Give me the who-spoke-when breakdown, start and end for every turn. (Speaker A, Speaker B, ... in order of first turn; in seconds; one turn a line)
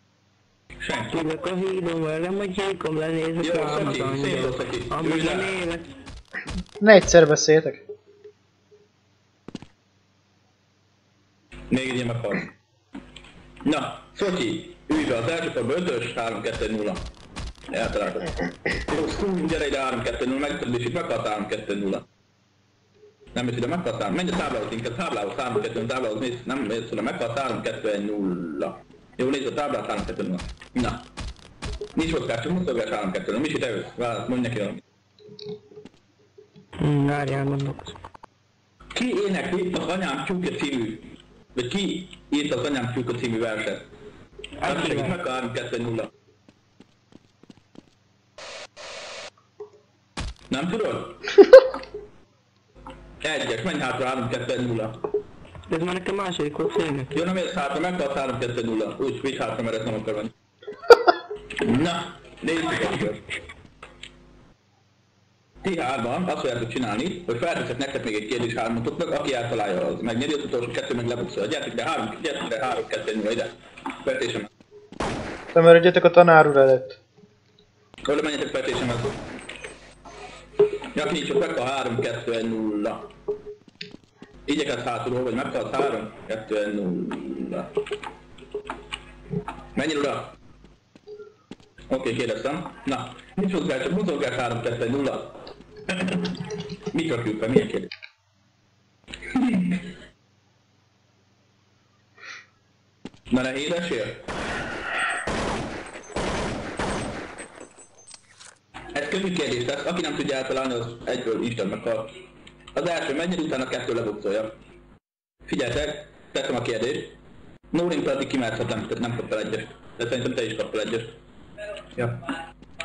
Speaker A: 0.8-1.2
Speaker B: 1.1-5.8
Speaker A: 3.4-5.6
Speaker C: 6.8-7.8
Speaker A: 11.7-12.5
Speaker A: 13.6-17.1
Speaker A: 17.7-22.0
Speaker A: 23.3-31.1
Speaker A: 31.9-34.8
Speaker B: 36.8-37.9
Speaker A: 38.9-43.9
Speaker A: 44.6-46.1
Speaker B: 44.7-45.1
Speaker A: 50.5-51.3
Speaker A: 53.2-55.1
Speaker B: 55.7-57.1
Speaker A: 57.1-60.3
Speaker A: 61.6-63.3
Speaker A: 65.6-74.5
Speaker C: 75.5-77.0
Speaker A: 78.0-79.2
Speaker A: 80.9-83.1
Speaker A: 84.5-87.7
Speaker A: 89.7-90.4
Speaker A: 91.9-95.3
Speaker A: 95.9-96.4
Speaker A: 96.9-97.9
Speaker A: 99.3-99.8
Speaker A: 103.3-104.2
Speaker A: 108.9-112.1
Speaker A: 112.7-114.6
Speaker A: 115.5-117.2
Speaker A: 117.7-121.2
Speaker A: 122.0-122.3